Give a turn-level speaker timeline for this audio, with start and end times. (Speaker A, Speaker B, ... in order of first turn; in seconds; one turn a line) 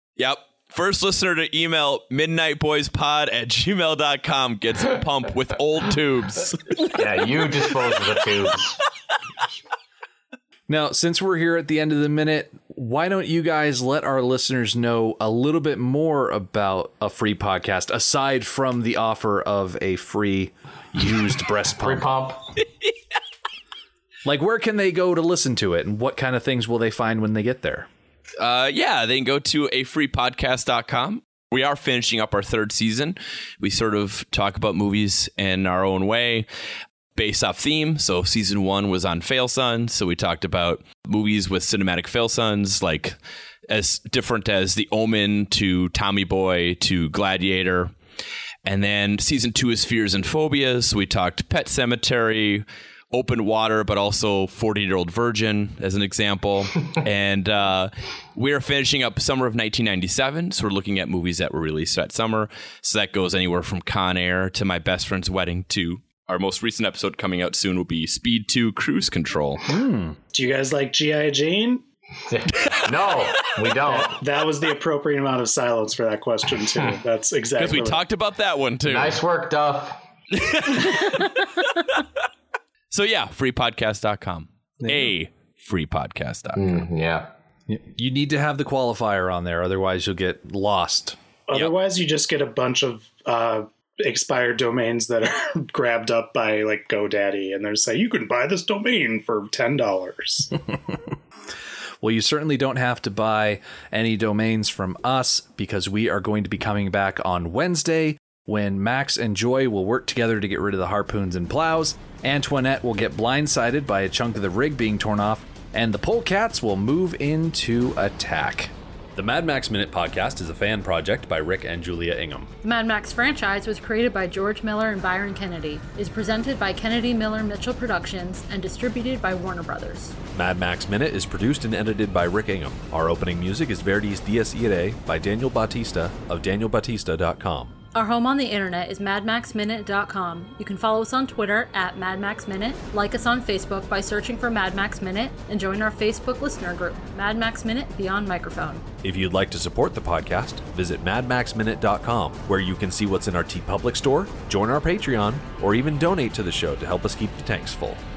Speaker A: 0.2-6.9
Speaker B: 6.8-8.8
Speaker C: 10.7-22.1
Speaker B: 21.8-22.5
Speaker C: 24.2-27.9
Speaker A: 28.4-36.5
Speaker A: 37.2-43.2
Speaker A: 43.7-47.9
Speaker A: 48.6-69.6
Speaker C: 69.7-70.2
Speaker D: 70.3-71.8
Speaker B: 72.3-74.2
Speaker D: 73.8-78.0
Speaker A: 77.6-79.2
Speaker B: 78.8-80.0
Speaker A: 80.3-82.0
Speaker A: 82.9-86.8
Speaker B: 86.6-87.3
Speaker C: 87.7-91.2
Speaker D: 91.5-100.5
Speaker C: 102.0-122.5
Speaker E: 122.6-130.2
Speaker F: 130.3-137.8
Speaker E: 137.9-148.9
Speaker F: 149.0-158.0